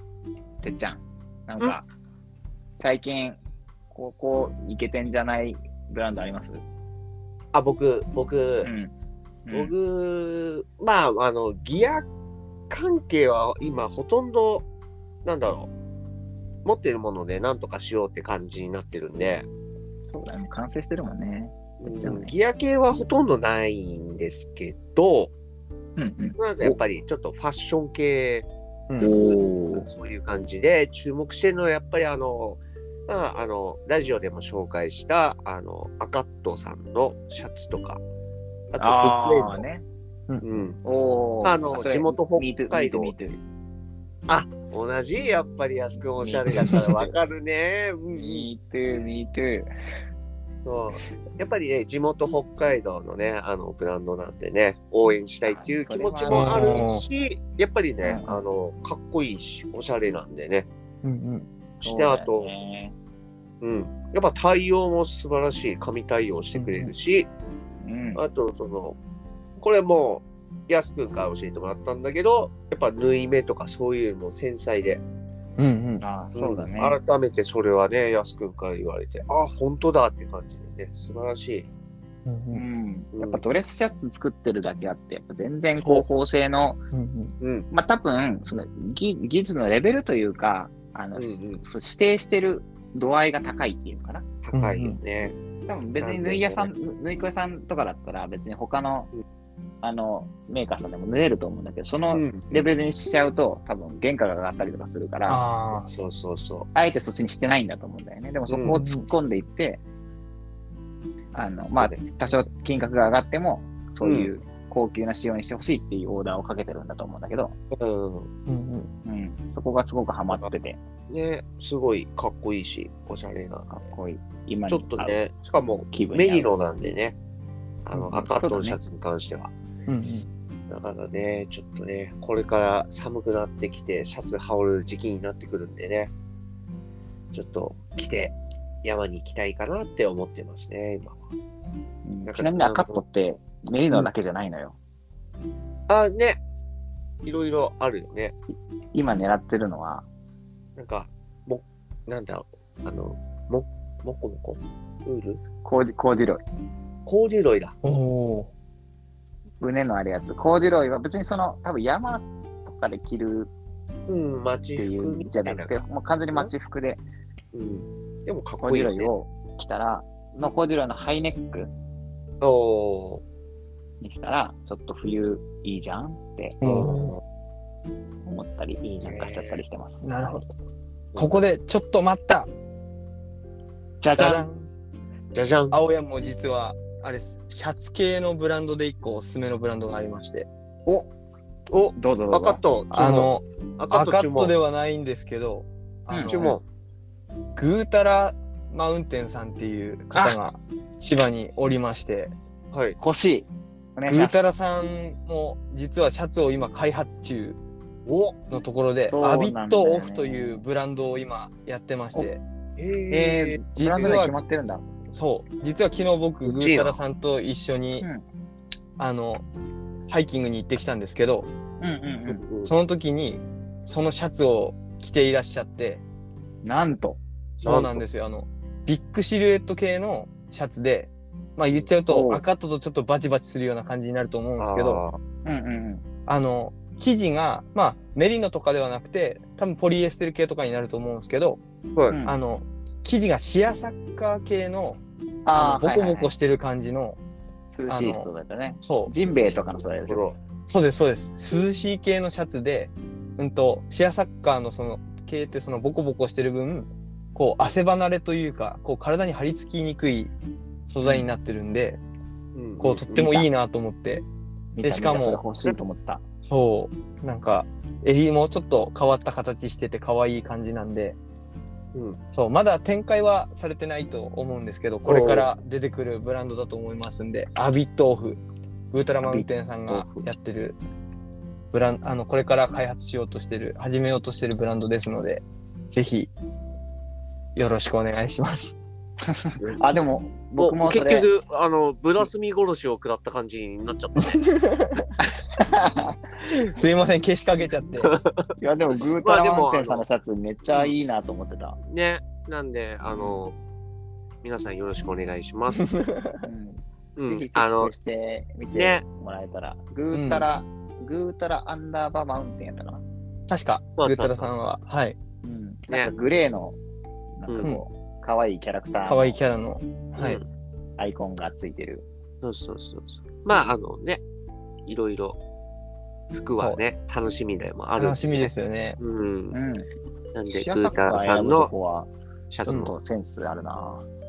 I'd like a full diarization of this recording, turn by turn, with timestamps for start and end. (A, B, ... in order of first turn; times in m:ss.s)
0:00.6-0:01.8 A
0:02.8-0:03.4 A
0:03.9-0:06.6 A
0:07.5-0:08.7 B
0:08.6-0:08.9 A
0:09.4-0:09.7 A
0:09.5-0:12.1 B
0:12.7-0:14.7 B
0:15.2-0:15.7 B
0:16.6-0:19.5 B
0:20.1-0:22.3 A
0:21.8-0:25.3 B
0:26.0-0:26.8 A
0:26.4-0:28.5 B
0:28.9-0:29.2 C
0:29.0-0:29.9 A
0:29.0-0:38.0 B
0:38.7-0:39.6 B
0:38.8-0:39.8 A
0:40.4-0:40.8 B
0:40.8-0:43.4 A
0:41.4-0:43.2 B
0:44.3-0:48.5 B
0:46.2-0:47.1 A
0:48.1-0:49.7 A
0:50.6-1:00.7 B
0:55.4-0:56.9 A
0:56.3-0:57.0 C
0:58.0-0:58.4 A
1:01.0-1:01.5 C
1:01.8-1:02.9 A
1:01.8-1:02.5 B
1:03.6-1:07.3 B
1:06.5-1:06.9 C
1:07.8-1:08.2 A
1:08.1-1:09.0 B
1:09.6-1:15.0 B
1:15.6-1:16.0 C
1:16.0-1:17.0 A
1:16.3-1:21.7 B
1:22.2-1:22.6 C
1:22.5-1:26.8 A
1:23.1-1:23.4 B
1:25.8-1:26.0 B
1:26.9-1:27.3 C
1:27.4-1:27.7 B
1:27.7-1:34.2 A
1:31.1-1:31.6 B
1:34.4-1:35.4 B
1:34.5-1:35.0 C
1:35.6-1:39.1 A
1:36.0-1:36.7 B
1:39.8-1:45.4 A
1:42.1-1:42.6 B
1:45.3-1:45.9 C
1:45.7-1:46.7 B
1:46.7-1:49.8 A
1:48.5-1:48.8 B
1:48.7-1:49.0 C
1:51.3-1:57.5 A
1:51.7-1:52.0 B
1:54.0-1:54.3 B
1:57.7-1:58.3 B
1:58.5-1:58.9 C
1:59.0-2:00.8 A
2:01.1-2:03.8 B
2:03.7-2:05.2 A
2:04.7-2:07.2 B
2:05.9-2:06.5 A
2:07.8-2:09.5 B
2:08.0-2:08.2 C
2:08.4-2:08.8 A
2:09.9-2:10.3 C
2:10.7-2:16.1 B
2:17.3-2:21.2 B
2:22.0-2:24.8 A
2:22.2-2:23.0 B
2:25.9-2:26.4 B
2:27.2-2:28.4 B
2:28.9-2:30.0 A
2:30.8-2:35.4 B
2:35.6-2:36.4 A
2:37.0-2:37.7 B
2:37.8-2:38.5 C
2:39.6-2:43.5 A
2:44.1-2:45.8 B
2:44.8-2:47.0 A
2:47.5-2:49.1 B
2:48.6-2:51.7 A
2:52.4-2:53.2 B
2:54.0-2:56.6 A
2:56.6-2:57.1 C
2:56.6-2:57.2 B
2:58.2-3:00.5 A
2:58.8-2:59.6 B
3:00.0-3:00.4 C
3:01.1-3:01.4 B
3:01.2-3:02.5 C
3:04.0-3:04.4 A
3:04.2-3:04.7 C
3:05.3-3:05.8 B
3:05.7-3:10.5 C
3:11.7-3:14.5 B
3:11.9-3:12.6 A
3:12.9-3:16.4 C
3:16.1-3:16.6 A
3:16.3-3:16.6 B
3:17.6-3:22.3 C
3:22.7-3:23.0 B
3:23.0-3:24.4 A
3:24.1-3:27.6 C
3:28.0-3:28.4 B
3:28.5-3:32.4 C
3:29.1-3:30.6 A
3:32.8-3:34.1 B
3:33.1-3:34.9 A
3:33.7-3:34.3 C
3:35.1-3:38.0 C
3:36.4-3:37.0 B
3:39.0-3:39.4 C
3:40.1-3:41.5 C
3:41.8-3:42.4 A
3:42.3-3:42.7 B
3:42.6-3:46.0 C
3:46.6-3:47.2 A
3:47.6-3:55.0 C
3:47.6-3:48.0 B
3:52.1-3:52.4 A
3:54.6-3:55.2 B
3:55.4-3:56.0 A
3:56.3-4:01.6 C
4:02.1-4:02.4 A
4:02.2-4:05.0 C
4:05.4-4:06.3 A
4:05.6-4:07.2 C
4:07.7-4:10.2 A
4:07.9-4:08.3 C
4:08.8-4:09.1 C
4:09.5-4:10.4 B
4:10.7-4:20.3 C
4:20.9-4:22.0 C
4:22.5-4:23.4 B
4:22.8-4:24.2 C
4:23.2-4:23.4 A
4:24.7-4:26.2 A
4:24.8-4:25.4 C
4:26.4-4:31.2 C
4:32.3-4:38.4 C
4:35.0-4:35.5 B
4:38.9-4:40.8 C
4:39.2-4:40.3 A
4:41.7-4:46.3 C
4:47.6-4:48.8 C
4:49.2-4:51.3 A
4:50.6-4:54.4 B
4:54.2-4:55.1 C
4:55.6-4:56.2 A
4:56.4-4:58.1 C
4:58.0-4:58.5 B
4:58.6-5:01.8 A
4:59.2-5:00.0 B
5:01.8-5:03.6 B
5:03.1-5:03.4 A
5:04.4-5:05.8 B
5:05.8-5:06.5 C
5:06.4-5:13.0 A
5:07.2-5:07.9 B
5:08.7-5:09.0 B
5:10.1-5:10.4 C
5:13.5-5:15.2 C
5:14.0-5:14.8 B
5:15.4-5:16.8 A
5:17.4-5:19.4 A
5:17.5-5:17.7 B
5:19.0-5:20.4 C
5:20.2-5:20.4 B
5:21.0-5:22.0 A
5:22.4-5:24.2 B
5:24.9-5:25.4 B
5:26.3-5:29.6 B
5:28.0-5:29.0 C
5:29.5-5:29.9 A
5:30.3-5:31.7 B
5:30.5-5:32.1 A
5:32.5-5:32.9 B
5:32.7-5:34.0 A